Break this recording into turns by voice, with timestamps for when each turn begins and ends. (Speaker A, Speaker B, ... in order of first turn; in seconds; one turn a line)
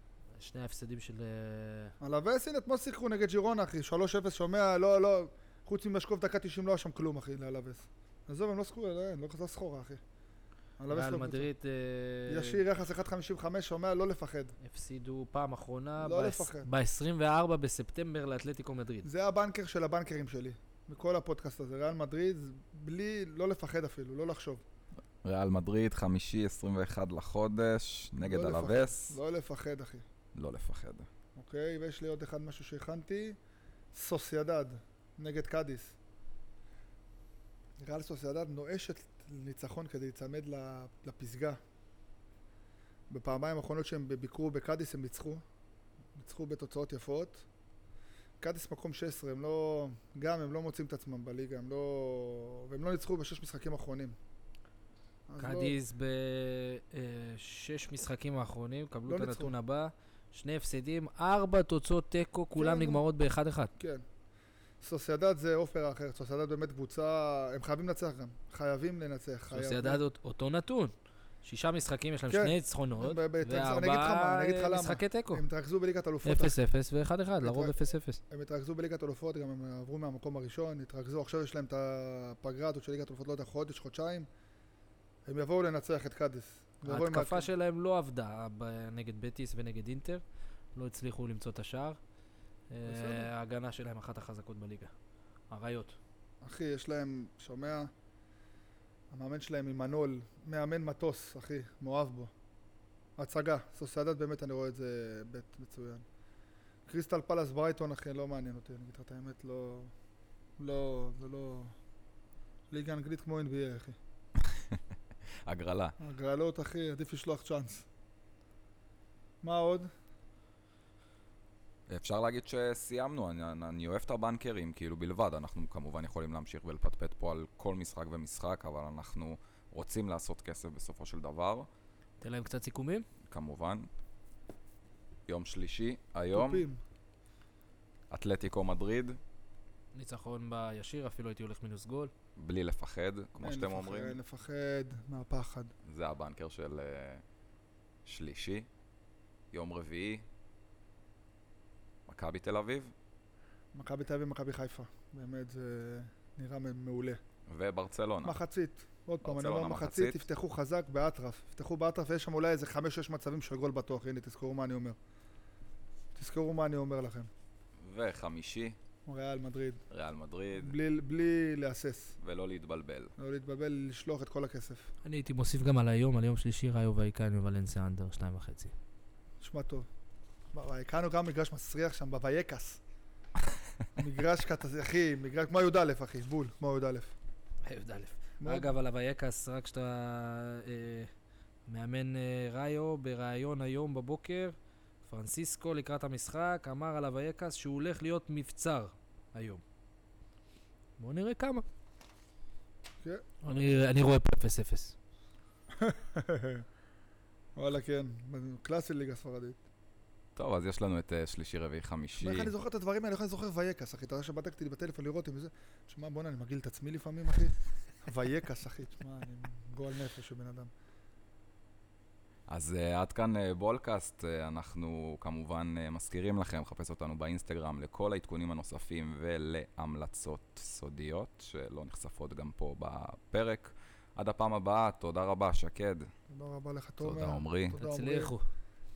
Speaker A: 0.3-1.9
Speaker B: 2.0-10.0
Speaker B: 10.8-11.5
Speaker A: 10.9-12.6
Speaker B: 12.3-14.6
Speaker A: 14.6-19.1
Speaker B: 16.0-16.7
Speaker B: 19.0-24.6
Speaker C: 25.2-29.2
Speaker B: 28.2-30.1
Speaker C: 30.4-31.1
Speaker B: 31.4-33.4
Speaker B: 33.9-36.0
Speaker B: 37.8-41.6
Speaker B: 43.1-45.4
Speaker B: 46.1-47.5
Speaker B: 48.4-54.2
Speaker B: 55.3-55.8
Speaker A: 55.4-63.7
Speaker B: 59.1-59.5
Speaker B: 62.6-63.0
Speaker B: 63.8-64.1
Speaker B: 64.8-70.0
Speaker A: 69.5-70.9
Speaker A: 71.4-75.4
Speaker B: 72.3-76.6
Speaker A: 76.2-78.2
Speaker B: 77.4-84.3
Speaker B: 85.3-87.5
Speaker A: 86.9-90.2
Speaker A: 90.8-92.0
Speaker A: 92.7-94.9
Speaker B: 92.9-93.3
Speaker A: 95.5-96.0
Speaker B: 96.4-97.9
Speaker B: 99.1-102.3
Speaker B: 103.2-106.0
Speaker B: 106.9-109.9
Speaker B: 110.6-111.8
Speaker B: 112.7-114.0
Speaker C: 114.4-114.8
Speaker C: 115.5-116.0
Speaker B: 116.0-117.9
Speaker B: 119.4-119.9
Speaker C: 121.9-131.7
Speaker A: 132.2-133.1
Speaker C: 133.3-133.9
Speaker C: 135.3-136.7
Speaker B: 136.3-136.8
Speaker C: 138.1-139.2
Speaker A: 139.9-142.1
Speaker C: 142.4-144.2
Speaker B: 143.4-145.7
Speaker C: 145.8-147.2
Speaker C: 148.1-148.7
Speaker C: 149.5-150.2
Speaker C: 152.1-152.9
Speaker B: 153.7-157.2
Speaker C: 157.5-158.4
Speaker B: 158.2-165.0
Speaker C: 159.2-160.2
Speaker B: 166.2-167.3
Speaker C: 167.8-168.8
Speaker B: 169.1-169.8
Speaker C: 169.9-170.8
Speaker B: 170.5-172.2
Speaker C: 172.2-173.1
Speaker B: 173.2-174.9
Speaker A: 175.0-178.7
Speaker B: 179.4-179.9
Speaker B: 180.5-182.8
Speaker B: 184.0-187.2
Speaker A: 187.7-191.1
Speaker B: 188.4-188.7
Speaker A: 191.7-199.6
Speaker A: 201.0-201.7
Speaker B: 203.0-203.8
Speaker A: 203.4-205.0
Speaker B: 205.7-206.7
Speaker B: 207.6-209.6
Speaker C: 210.4-212.5
Speaker B: 212.2-220.7
Speaker C: 222.5-236.1
Speaker B: 236.3-238.3
Speaker C: 237.0-237.8
Speaker A: 237.7-238.4